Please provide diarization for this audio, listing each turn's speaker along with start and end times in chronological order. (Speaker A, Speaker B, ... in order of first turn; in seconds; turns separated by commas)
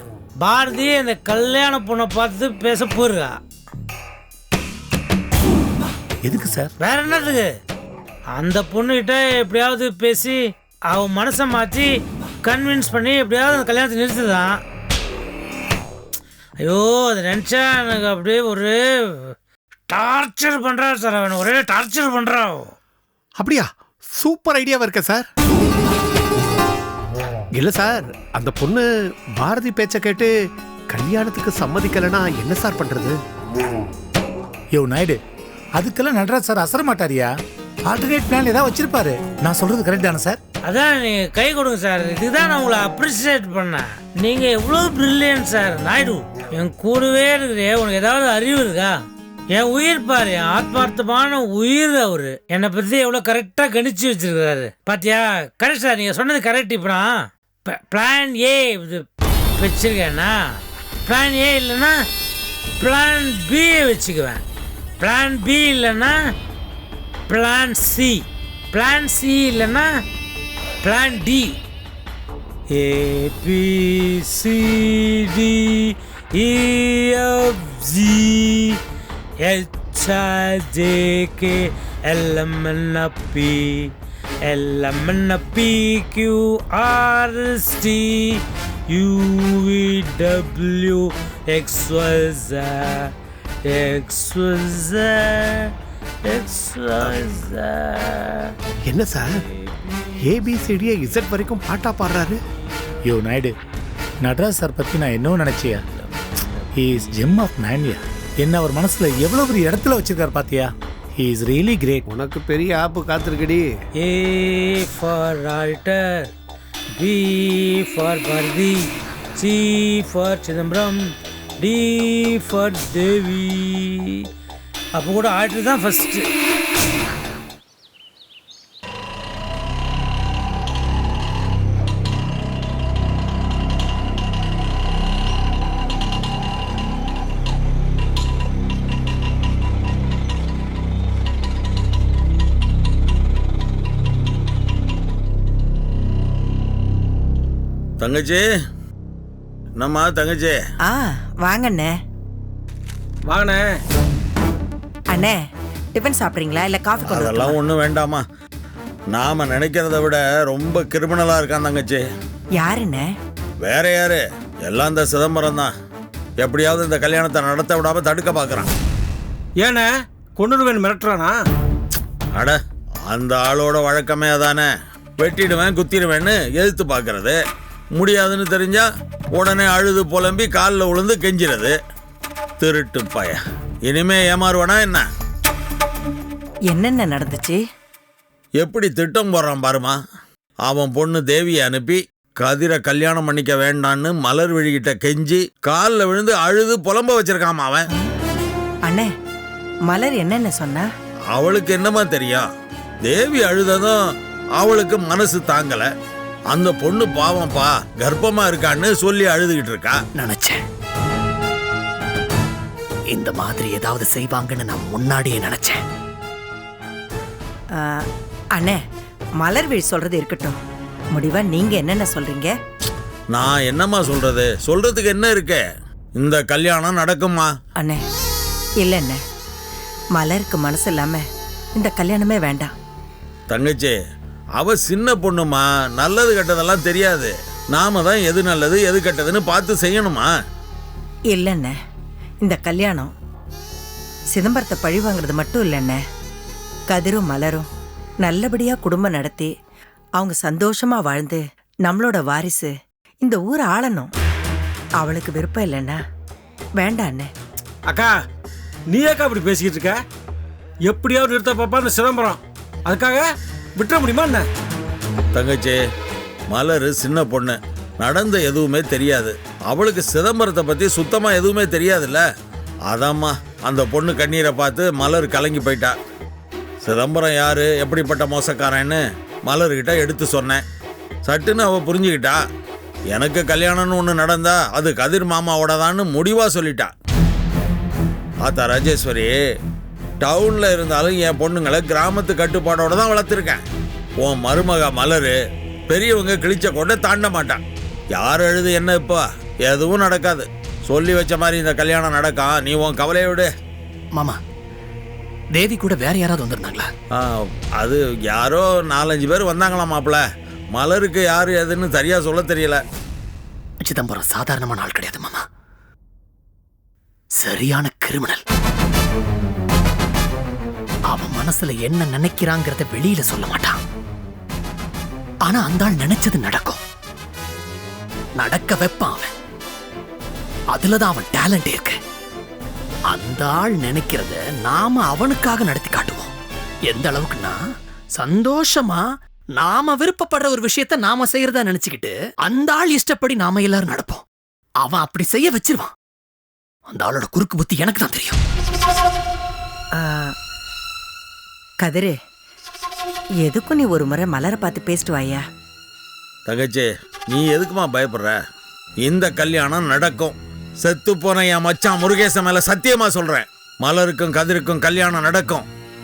Speaker A: 0.4-3.3, Speaker B: 6.2-6.7, Speaker A: 6.8-7.5, Speaker A: 8.3-10.4, Speaker A: 10.9-11.9, Speaker A: 12.4-14.6, Speaker A: 16.6-19.3, Speaker A: 19.9-22.7, Speaker C: 23.4-25.2, Speaker C: 27.6-28.9, Speaker C: 29.4-30.3, Speaker C: 30.9-33.2, Speaker B: 34.7-35.2, Speaker B: 35.8-37.3, Speaker B: 37.9-40.4, Speaker A: 40.6-48.9, Speaker A: 49.5-57.1, Speaker A: 57.7-59.0, Speaker A: 59.6-60.4, Speaker A: 61.1-62.0, Speaker A: 62.8-64.4, Speaker A: 65.0-66.1, Speaker A: 67.3-69.9, Speaker A: 70.8-71.6, Speaker A: 72.7-78.8, Speaker A: 79.4-83.9, Speaker A: 84.5-93.1, Speaker A: 93.7-95.7, Speaker A: 96.3-98.5, Speaker C: 98.9-99.3, Speaker C: 100.2-102.4, Speaker B: 103.0-103.5, Speaker B: 104.2-105.8, Speaker B: 106.8-112.0, Speaker C: 112.1-113.7, Speaker A: 114.0-116.3, Speaker A: 117.0-121.0, Speaker A: 121.6-124.2, Speaker A: 125.0-126.2, Speaker D: 148.0-148.4, Speaker D: 149.8-150.6, Speaker E: 150.8-152.0, Speaker F: 153.2-153.8, Speaker E: 155.1-155.4, Speaker E: 155.9-157.6, Speaker D: 157.1-158.2, Speaker D: 159.1-162.0, Speaker E: 162.6-163.1, Speaker D: 163.6-165.7, Speaker D: 166.4-168.7, Speaker F: 169.6-171.4, Speaker D: 172.3-174.7, Speaker D: 175.2-177.4, Speaker D: 177.9-181.8, Speaker D: 182.6-185.1, Speaker E: 186.7-187.6, Speaker D: 188.6-190.0, Speaker D: 190.7-197.9, Speaker E: 198.8-199.1, Speaker E: 199.9-200.9, Speaker D: 201.3-202.5, Speaker D: 203.0-204.0, Speaker D: 204.6-205.9, Speaker D: 206.5-210.0, Speaker G: 210.1-210.6, Speaker G: 213.1-215.8, Speaker E: 217.7-218.8, Speaker E: 219.4-220.6, Speaker E: 221.1-222.6, Speaker D: 223.3-225.6, Speaker D: 226.2-227.5, Speaker E: 227.8-228.0, Speaker E: 228.8-229.2, Speaker E: 230.1-231.2, Speaker E: 231.8-232.7, Speaker D: 233.5-233.9, Speaker D: 234.6-240.3, Speaker E: 241.3-241.8, Speaker E: 242.4-243.1, Speaker E: 244.3-246.0, Speaker E: 246.9-247.7, Speaker E: 248.2-249.5, Speaker E: 250.2-254.1, Speaker E: 255.0-256.0, Speaker E: 256.8-257.3, Speaker F: 257.9-258.2, Speaker F: 258.9-260.0, Speaker F: 260.9-264.5, Speaker D: 265.3-265.8, Speaker D: 266.5-272.2, Speaker D: 272.9-275.9, Speaker D: 276.8-280.6, Speaker D: 281.2-282.4, Speaker D: 283.1-286.9, Speaker D: 288.4-289.3, Speaker D: 290.2-293.6, Speaker D: 294.2-295.4, Speaker D: 295.9-297.6, Speaker D: 298.1-303.5, Speaker G: 305.5-306.9, Speaker D: 307.1-312.8, Speaker G: 313.8-315.4, Speaker G: 317.4-318.4, Speaker G: 321.1-323.8, Speaker G: 325.4-326.8, Speaker G: 328.4-329.3, Speaker G: 330.7-331.9, Speaker G: 333.1-336.3, Speaker G: 336.9-337.6, Speaker G: 338.1-339.0, Speaker G: 339.6-344.2, Speaker G: 344.8-345.9, Speaker G: 346.9-348.4, Speaker E: 349.9-350.3, Speaker E: 351.8-352.1, Speaker E: 353.4-355.4, Speaker D: 356.5-358.4, Speaker D: 359.0-365.6